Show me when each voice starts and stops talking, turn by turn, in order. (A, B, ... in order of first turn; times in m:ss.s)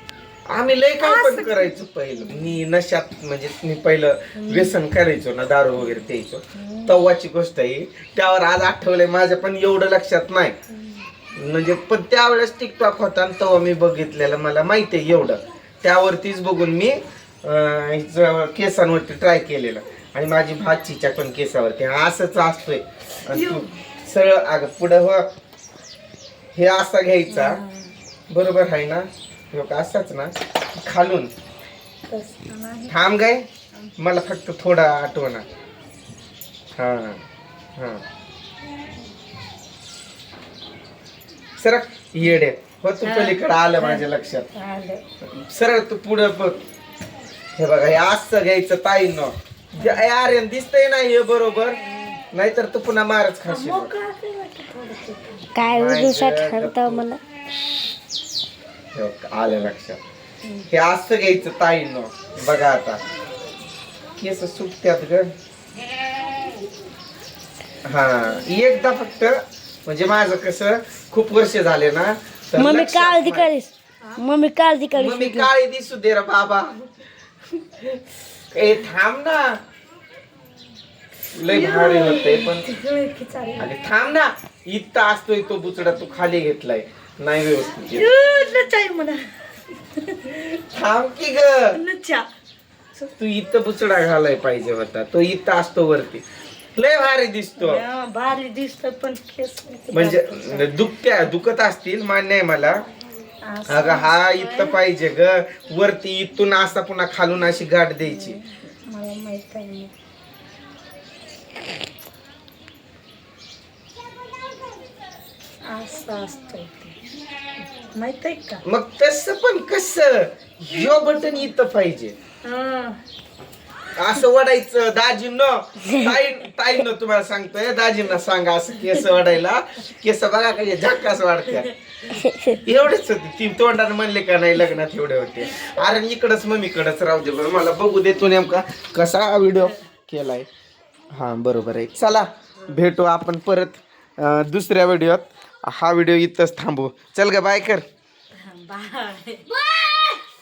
0:00.5-0:10.6 A
0:01.0-0:02.6 B
0:04.4-0:04.8 B
0:06.5-0:07.1 B
0:10.7-0:11.1 B
0:11.4-0:25.3 A
0:23.3-0:23.8 B
0:26.6-0:27.6 A
0:27.3-0:27.9 B
0:28.3-0:31.3 A
0:32.1-0:32.9 B
0:32.9-0:35.4 A
0:36.8-0:37.2 A
0:37.8-0:38.0 A
0:41.6-0:44.5 A
0:43.0-0:45.0 B
0:45.2-0:46.6 A
0:47.6-0:51.8 A
0:49.8-0:50.0 B
0:52.3-0:53.9 A
0:53.5-0:55.6 B
0:55.6-0:57.2 C
0:55.7-0:57.0 A
0:58.9-1:00.0 A
1:00.4-1:00.7 B
1:00.7-1:03.0 A
1:04.2-1:05.3 A
1:07.8-1:13.5 A
1:12.6-1:15.5 C
1:15.0-1:16.9 A
1:17.6-1:19.6 A
1:21.3-1:22.6 A
1:21.5-1:23.7 B
1:23.6-1:28.1 A
1:28.0-1:30.6 B
1:30.6-1:31.8 A
1:31.7-1:32.3 B
1:33.0-1:36.2 A
1:36.8-1:37.8 A
1:37.6-1:40.7 B
1:39.9-1:42.8 A
1:43.4-1:44.8 B
1:43.7-1:48.4 A
1:48.0-1:49.9 B
1:55.7-1:57.0 B
1:57.9-1:58.6 B
1:58.6-2:02.2 A
2:00.7-2:01.2 B
2:02.4-2:03.0 B
2:04.0-2:11.7 A
2:12.1-2:12.6 C
2:12.6-2:20.5 A
2:21.1-2:27.9 A
2:28.4-2:30.2 B